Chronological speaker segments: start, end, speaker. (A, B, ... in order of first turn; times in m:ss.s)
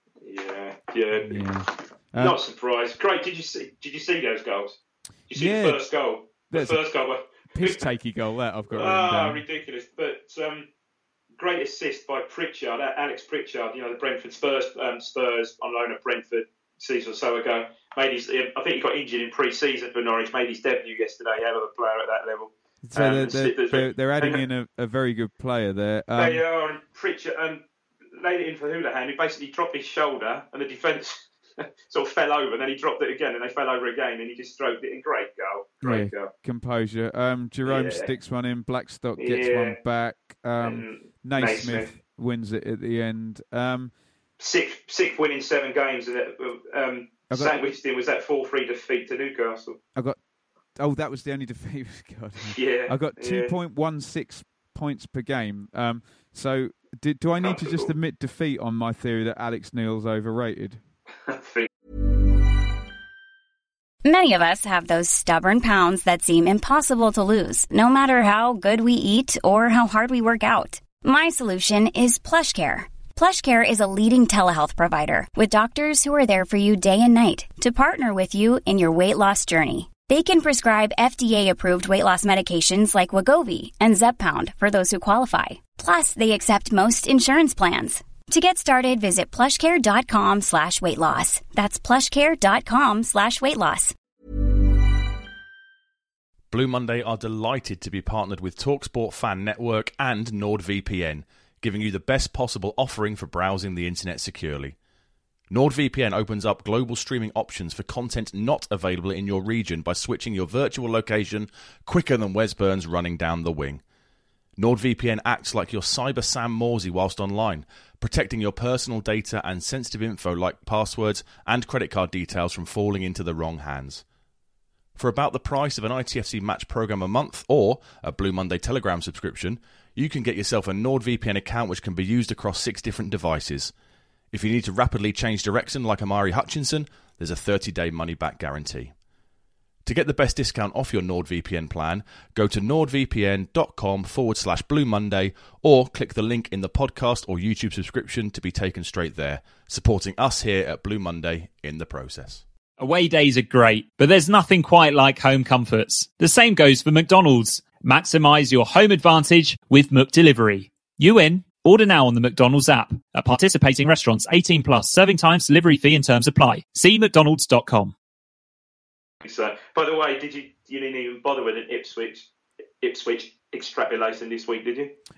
0:00.2-0:01.4 A
0:01.2-0:02.4 B
0:02.2-0:07.8 A
0:05.3-0:05.8 B
0:06.5-0:06.8 B
0:07.5-0:09.4 B
0:08.7-0:10.7 A
0:11.4-0:24.4 A
0:22.8-0:26.4 B
0:26.2-0:36.3 A
0:35.8-0:43.9 B
0:37.6-0:38.1 A
0:39.2-0:39.8 A
0:40.6-0:41.9 A
0:44.4-0:49.8 A
0:50.7-1:00.8 B
0:52.4-0:53.5 A
0:57.4-0:57.9 A
1:01.3-1:01.7 A
1:04.0-1:33.9 C
1:36.5-1:44.8 D
1:45.5-1:53.8 D
1:54.6-2:04.0 D
2:04.9-2:13.7 D
2:14.3-2:18.9 D
2:19.8-2:32.4 D
2:32.8-2:47.9 E
2:49.2-2:52.3 A
2:52.8-2:55.0 A